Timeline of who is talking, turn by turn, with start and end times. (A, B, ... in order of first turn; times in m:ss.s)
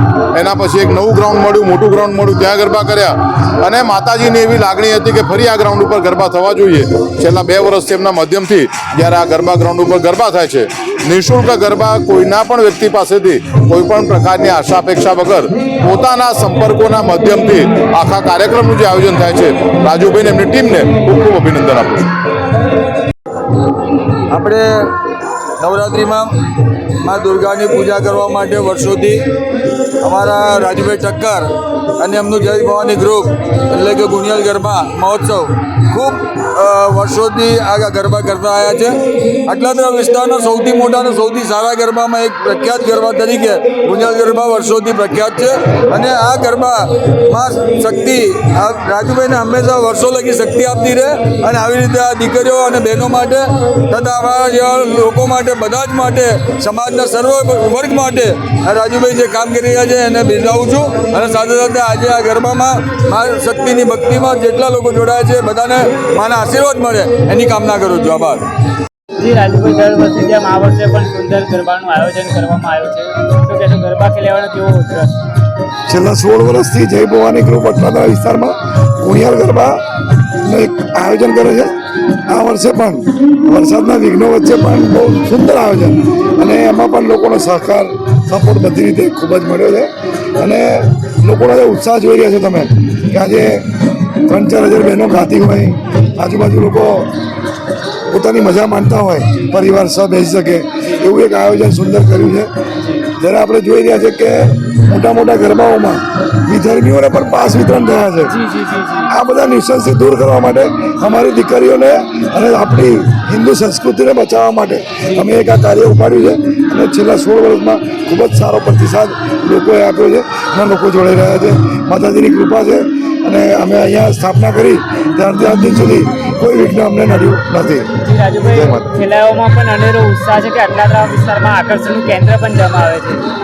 0:00.3-0:22.1 A
0:24.3-0:24.9 B
0:25.6-0:26.3 B
0:27.0-0:29.2 B
0:30.0-1:08.4 B
1:09.2-1:15.1 C
1:15.9-1:19.8 D
1:20.4-1:21.7 D
1:22.3-1:33.6 D
1:34.2-1:37.1 D
1:38.1-1:42.5 D
1:42.8-1:43.1 C
1:43.2-1:48.4 D
1:48.3-1:49.1 C
1:49.1-2:07.9 D
2:08.0-2:13.2 C
2:08.4-2:08.9 D